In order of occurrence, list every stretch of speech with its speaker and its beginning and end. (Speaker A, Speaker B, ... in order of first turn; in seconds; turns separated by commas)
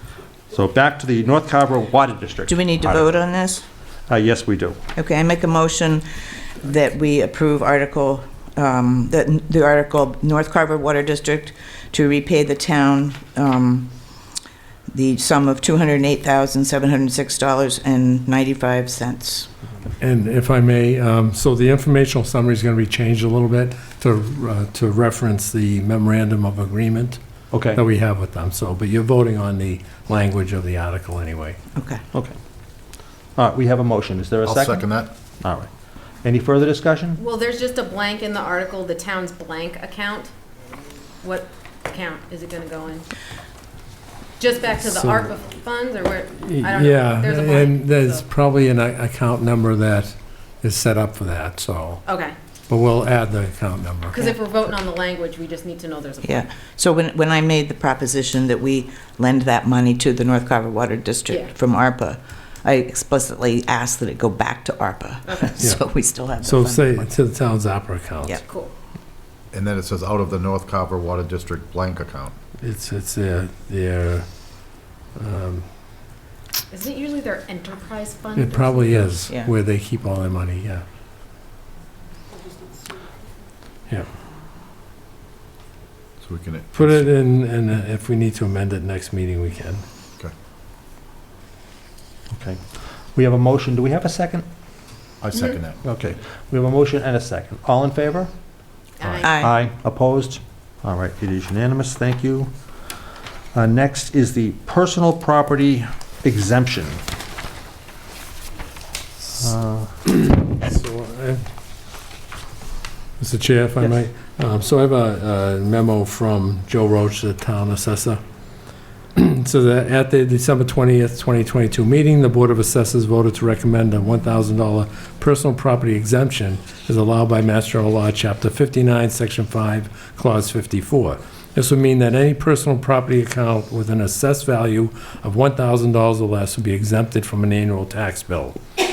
Speaker A: 0.5-3.2, Speaker B: 2.5-3.6, Speaker A: 4.1-4.8, Speaker B: 5.0-13.9, Speaker B: 14.9-19.5, Speaker C: 20.0-27.2, Speaker A: 27.5-27.8, Speaker C: 27.7-31.6, Speaker B: 31.8-32.0, Speaker A: 33.4-34.9, Speaker D: 34.4-35.1, Speaker A: 35.4-37.2, Speaker E: 37.2-40.3, Speaker E: 41.2-43.1, Speaker E: 44.4-48.2, Speaker C: 44.8-45.3, Speaker C: 46.4-52.0, Speaker E: 52.0-52.4, Speaker C: 52.7-54.2, Speaker E: 54.1-56.5, Speaker B: 56.2-67.1, Speaker E: 61.3-61.5, Speaker E: 65.3-65.5, Speaker C: 66.4-68.4, Speaker E: 68.5-68.7, Speaker D: 69.5-72.3, Speaker C: 72.6-74.3, Speaker C: 75.2-75.7, Speaker E: 76.7-79.0, Speaker C: 78.4-80.8, Speaker D: 86.2-86.9, Speaker C: 86.7-89.8, Speaker A: 92.3-92.6, Speaker A: 93.2-94.5, Speaker D: 95.2-95.8, Speaker A: 95.8-98.3, Speaker E: 99.0-99.5, Speaker A: 99.2-102.5, Speaker B: 99.2-99.5, Speaker A: 103.5-107.0, Speaker A: 109.4-109.9, Speaker C: 110.0-111.4, Speaker C: 113.2-118.2, Speaker C: 119.2-138.6